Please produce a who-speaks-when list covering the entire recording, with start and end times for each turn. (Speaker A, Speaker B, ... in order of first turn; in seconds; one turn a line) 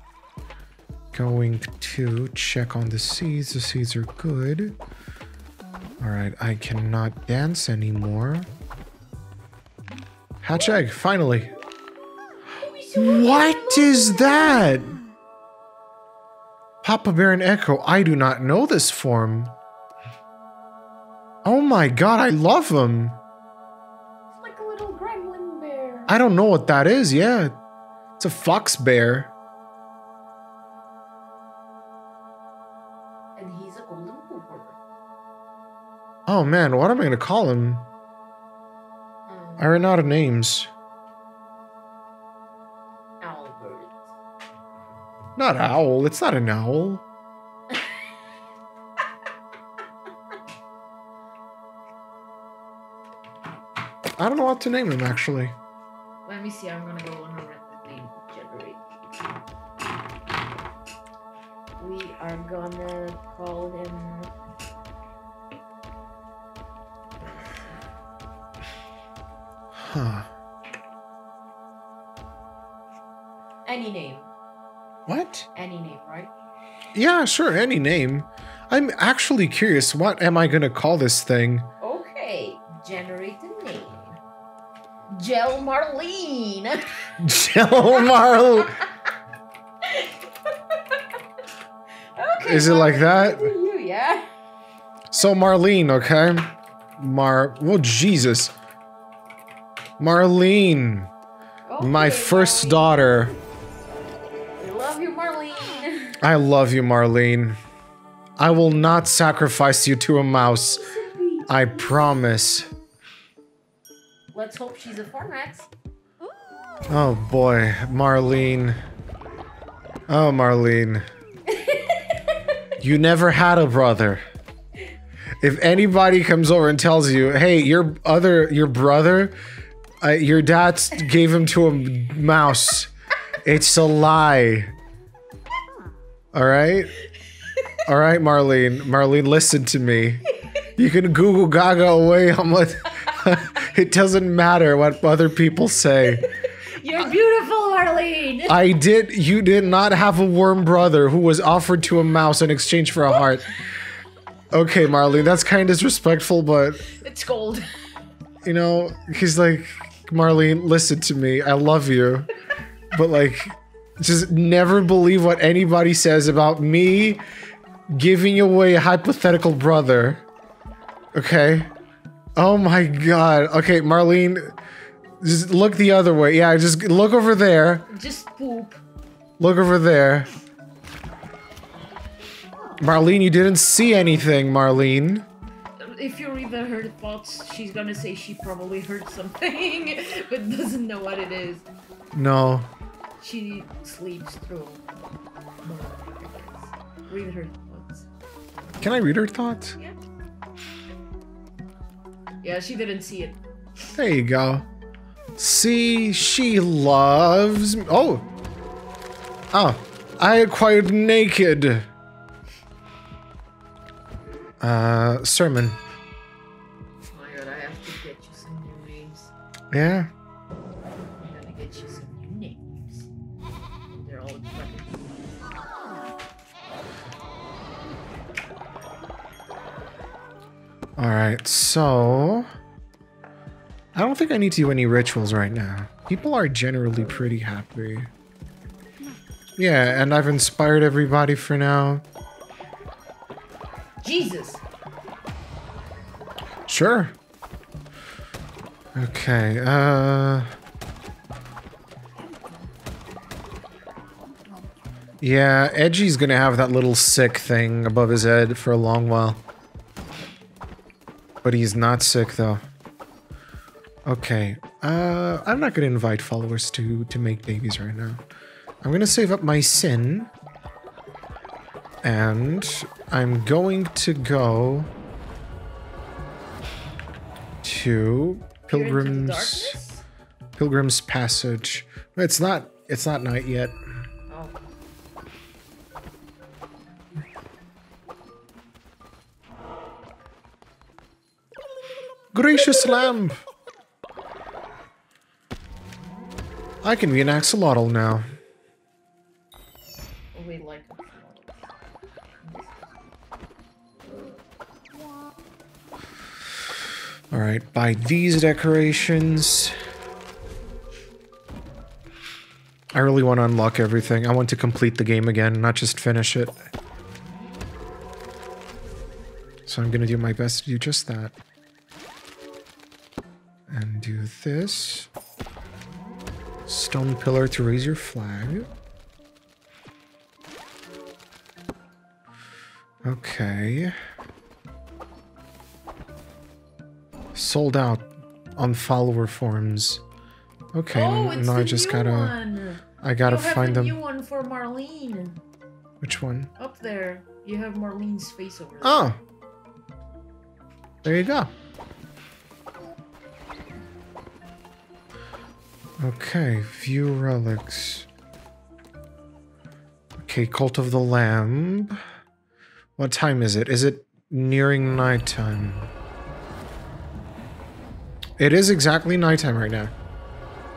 Speaker A: 1.1-4.8
Speaker A: 6.0-8.5
Speaker A: 10.4-11.5
Speaker B: 12.5-14.5
Speaker A: 12.9-15.0
Speaker A: 16.8-19.5
Speaker A: 21.4-23.2
Speaker B: 24.3-26.1
Speaker A: 26.1-27.5
Speaker A: 28.2-29.3
Speaker B: 33.4-34.8
Speaker A: 36.3-37.9
Speaker B: 39.3-39.7
Speaker A: 39.6-40.7
Speaker B: 43.2-44.1
Speaker A: 45.4-47.0
Speaker A: 54.2-55.5
Speaker B: 56.2-58.8
Speaker B: 61.8-64.3
Speaker B: 67.2-67.8
Speaker A: 69.7-70.3
Speaker B: 73.7-74.3
Speaker A: 75.0-75.5
Speaker B: 75.5-76.3
Speaker A: 76.9-81.7
Speaker B: 81.8-84.2
Speaker B: 85.1-87.1
Speaker A: 87.2-88.8
Speaker B: 88.2-88.8
Speaker B: 89.8-91.0
Speaker B: 92.1-94.3
Speaker A: 92.4-93.5
Speaker A: 95.1-98.5
Speaker A: 100.0-101.1
Speaker B: 101.7-103.2
Speaker A: 101.8-103.3
Speaker B: 104.6-106.2
Speaker A: 106.2-107.6
Speaker A: 108.4-110.8
Speaker B: 110.7-111.5
Speaker A: 111.5-112.7
Speaker B: 114.3-115.7
Speaker A: 116.9-118.8
Speaker A: 120.1-121.0
Speaker B: 121.5-122.4
Speaker A: 122.8-124.2
Speaker A: 125.4-129.3
Speaker A: 130.0-134.7
Speaker A: 136.3-136.9
Speaker A: 137.8-140.2
Speaker A: 140.8-146.3
Speaker B: 146.2-148.6
Speaker A: 148.5-153.5
Speaker A: 154.5-156.8
Speaker B: 156.8-157.7
Speaker A: 158.4-162.3
Speaker A: 162.9-167.2
Speaker A: 167.9-170.2
Speaker A: 171.1-171.7
Speaker A: 172.3-174.5
Speaker A: 175.2-177.9
Speaker B: 177.9-178.8
Speaker A: 179.4-180.3
Speaker A: 182.8-185.3
Speaker B: 185.8-191.7
Speaker A: 192.1-192.7
Speaker B: 193.2-194.8
Speaker B: 195.6-198.1
Speaker A: 198.8-199.8
Speaker B: 202.4-203.4
Speaker A: 203.9-204.7
Speaker A: 205.4-208.2
Speaker A: 209.5-211.9
Speaker A: 214.6-215.8
Speaker B: 217.0-219.3
Speaker A: 219.7-220.1
Speaker B: 221.2-223.1
Speaker B: 223.9-225.5
Speaker A: 231.0-232.5
Speaker A: 233.9-238.1
Speaker A: 239.6-242.0
Speaker B: 244.0-244.6
Speaker A: 246.7-247.1
Speaker A: 248.9-250.5
Speaker A: 255.2-259.4
Speaker A: 261.4-262.6
Speaker A: 264.0-268.2
Speaker A: 268.8-270.3
Speaker A: 272.0-274.9
Speaker A: 277.6-279.8
Speaker B: 278.7-280.0
Speaker A: 280.6-283.8
Speaker B: 284.3-284.6
Speaker A: 292.3-293.4
Speaker A: 296.8-298.3
Speaker B: 300.3-301.7
Speaker B: 302.4-303.2
Speaker A: 307.3-309.7
Speaker A: 312.9-316.6
Speaker A: 319.7-321.3
Speaker A: 323.7-325.1
Speaker A: 326.6-328.7
Speaker A: 333.0-333.9
Speaker A: 337.3-340.0
Speaker A: 340.7-342.3
Speaker B: 340.9-345.4
Speaker A: 343.0-344.0
Speaker A: 346.0-346.5
Speaker B: 346.6-349.1
Speaker A: 348.8-349.2
Speaker A: 351.0-351.5
Speaker A: 356.0-358.1
Speaker A: 360.2-362.0
Speaker A: 363.0-365.9
Speaker A: 368.4-369.9